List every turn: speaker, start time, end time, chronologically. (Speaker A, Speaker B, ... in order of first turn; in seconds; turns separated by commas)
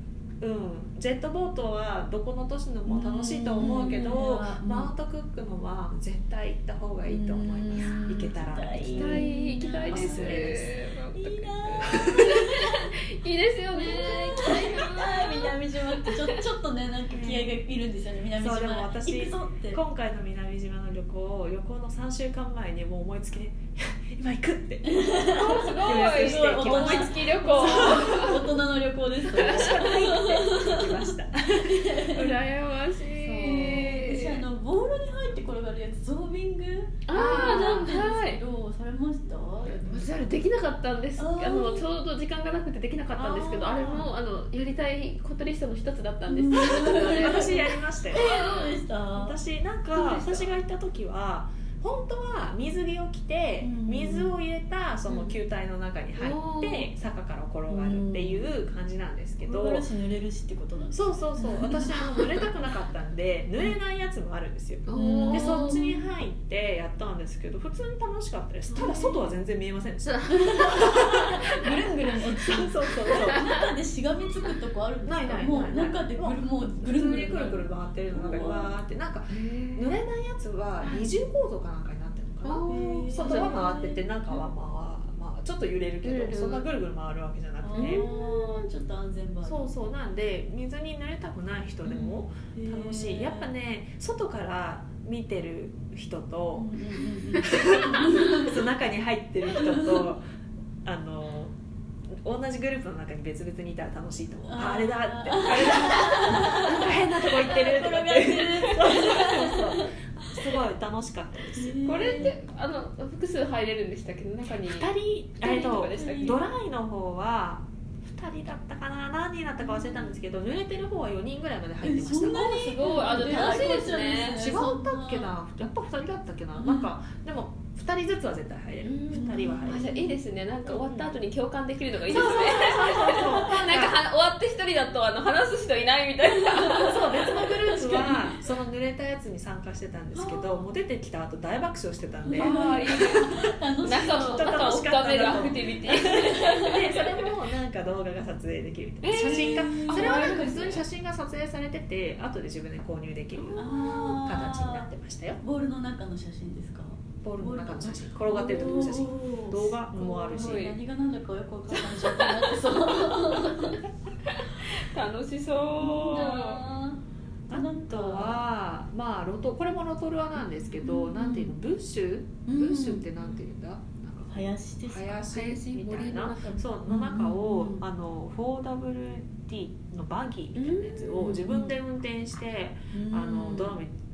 Speaker A: 0.4-9.3, Speaker B: 2.9-4.9, Speaker C: 3.6-4.1, Speaker B: 7.1-12.9, Speaker C: 8.9-16.4, Speaker A: 9.9-10.7, Speaker A: 11.9-12.2, Speaker B: 13.7-19.8, Speaker A: 17.1-17.6, Speaker A: 18.4-28.4, Speaker B: 24.8-32.3, Speaker C: 25.3-28.4, Speaker A: 29.3-32.2, Speaker C: 29.4-29.7, Speaker C: 32.1-34.4, Speaker B: 33.1-40.1, Speaker C: 37.1-38.4, Speaker A: 37.1-37.7, Speaker C: 39.8-48.8, Speaker B: 41.2-41.9, Speaker A: 43.1-44.1, Speaker B: 46.3-49.4, Speaker A: 46.6-48.5, Speaker A: 49.1-59.9, Speaker C: 49.9-50.5, Speaker B: 53.6-54.3, Speaker C: 56.2-56.9, Speaker B: 57.7-58.5, Speaker B: 59.4-62.2, Speaker A: 60.9-71.8, Speaker C: 64.8-65.9, Speaker B: 64.9-66.0, Speaker C: 68.7-69.1, Speaker B: 68.8-69.1, Speaker C: 70.0-71.0, Speaker B: 70.3-78.7, Speaker A: 72.4-73.5, Speaker C: 73.1-73.5, Speaker A: 75.0-88.0, Speaker C: 79.3-79.9, Speaker C: 80.8-81.1, Speaker C: 82.4-83.7, Speaker B: 82.7-84.0, Speaker C: 86.0-86.7, Speaker B: 87.6-89.7, Speaker C: 87.7-88.7, Speaker A: 89.4-96.7, Speaker B: 91.8-93.5, Speaker B: 96.5-98.6, Speaker A: 97.4-100.2, Speaker B: 99.5-100.1, Speaker A: 100.8-101.5, Speaker A: 102.2-112.2, Speaker B: 104.5-110.5, Speaker B: 111.5-112.3, Speaker C: 111.8-116.4, Speaker A: 114.5-123.7, Speaker B: 115.4-116.4, Speaker B: 121.8-125.3, Speaker C: 122.4-124.5, Speaker A: 124.3-130.0, Speaker B: 126.6-126.9, Speaker C: 128.8-137.1, Speaker B: 129.1-130.1, Speaker A: 130.7-131.1, Speaker A: 132.1-134.0, Speaker B: 136.3-138.4, Speaker A: 136.8-143.4, Speaker B: 140.1-140.6, Speaker B: 142.2-144.5, Speaker C: 142.3-143.3, Speaker C: 143.8-147.3, Speaker A: 144.1-155.4, Speaker B: 145.9-146.8, Speaker C: 149.0-150.8, Speaker B: 149.1-150.7, Speaker C: 153.3-154.0, Speaker B: 153.6-154.9, Speaker B: 155.4-163.8, Speaker A: 157.2-160.7, Speaker C: 159.9-160.8, Speaker C: 161.7-166.6, Speaker B: 165.8-168.4, Speaker A: 167.5-183.9, Speaker B: 170.8-171.5, Speaker B: 172.4-173.1, Speaker B: 174.3-175.3, Speaker C: 175.2-176.6, Speaker B: 176.8-177.8, Speaker C: 180.5-181.4, Speaker B: 181.2-181.7, Speaker B: 182.9-183.8